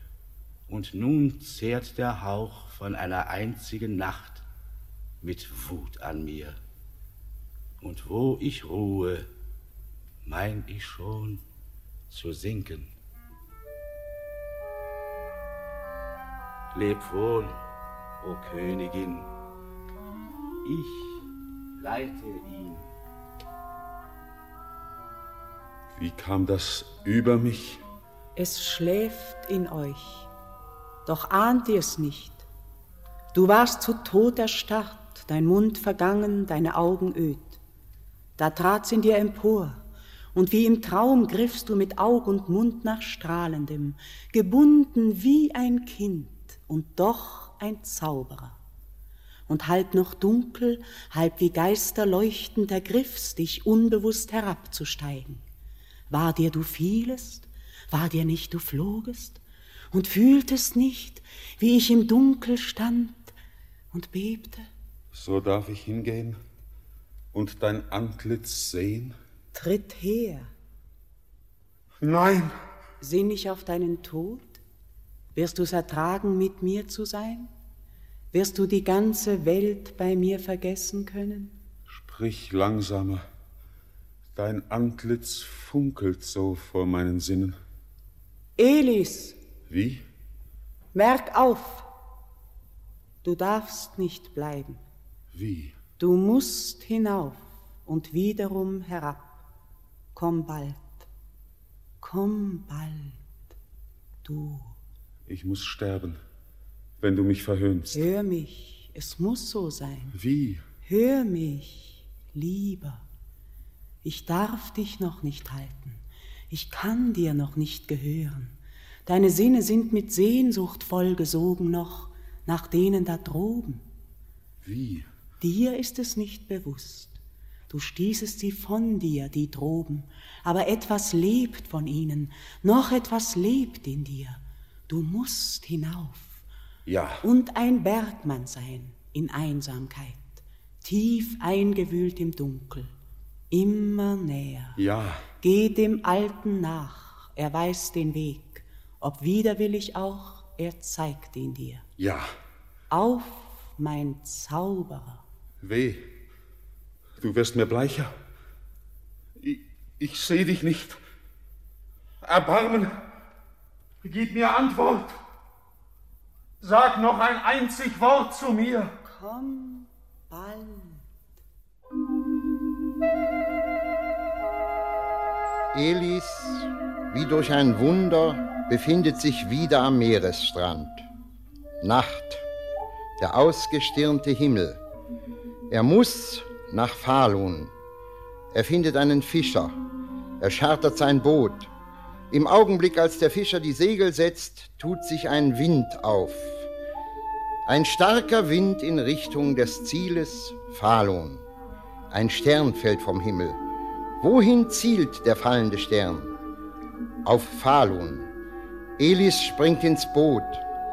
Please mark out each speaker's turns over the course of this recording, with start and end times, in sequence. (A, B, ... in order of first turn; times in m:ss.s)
0:00.7-0:04.4 A
0:05.2-0:06.6 A
0:07.8-0:09.3 A
0:10.2-0:11.4 A
0:12.1-0:13.0 A
0:16.7-0:17.6 A
0:18.2-0:19.3 A
0:20.6-0:21.2 A
0:21.8-0:22.9 A
0:26.0-0:27.8 B
0:28.4-0:30.3 C
0:31.1-0:32.4 C
0:33.3-0:37.6 C
0:38.4-0:48.6 C
0:49.5-0:55.4 C
0:56.1-0:59.4 C
0:59.9-1:03.4 C
1:03.9-1:04.7 C
1:05.1-1:06.4 B
1:07.3-1:09.2 B
1:09.5-1:10.5 C
1:12.0-1:12.6 B
1:13.0-1:14.6 C
1:15.4-1:17.5 C
1:18.3-1:21.6 C
1:21.9-1:23.2 B
1:24.4-1:27.6 B
1:28.6-1:29.4 C
1:29.7-1:30.0 B
1:30.9-1:31.9 C
1:33.2-1:34.8 C
1:35.3-1:35.8 B
1:36.0-1:39.4 C
1:40.2-1:41.1 C
1:42.0-1:43.2 C
1:44.2-1:44.8 C
1:45.3-1:46.2 B
1:47.0-1:48.1 B
1:47.9-1:50.2 C
1:50.2-1:50.6 B
1:50.8-1:53.1 C
1:54.0-2:03.8 C
2:04.6-2:05.1 B
2:05.4-2:07.2 C
2:07.7-2:16.4 C
2:16.9-2:17.2 B
2:17.2-2:22.9 C
2:23.5-2:24.8 C
2:24.8-2:25.2 B
2:25.4-2:31.8 C
2:32.0-2:32.3 B
2:32.9-2:35.2 C
2:35.6-2:36.1 B
2:37.2-2:38.1 B
2:39.4-2:41.0 B
2:42.2-2:43.0 B
2:44.0-2:45.2 B
2:46.6-2:49.0 B
2:49.0-2:51.1 C
2:55.7-3:01.0 D
3:01.8-3:02.4 D
3:03.2-3:04.8 D
3:05.7-3:07.7 D
3:08.5-3:09.8 D
3:10.4-3:11.7 D
3:12.3-3:16.7 D
3:17.7-3:21.5 D
3:22.1-3:23.6 D
3:24.2-3:26.3 D
3:27.2-3:28.3 D
3:29.0-3:30.6 D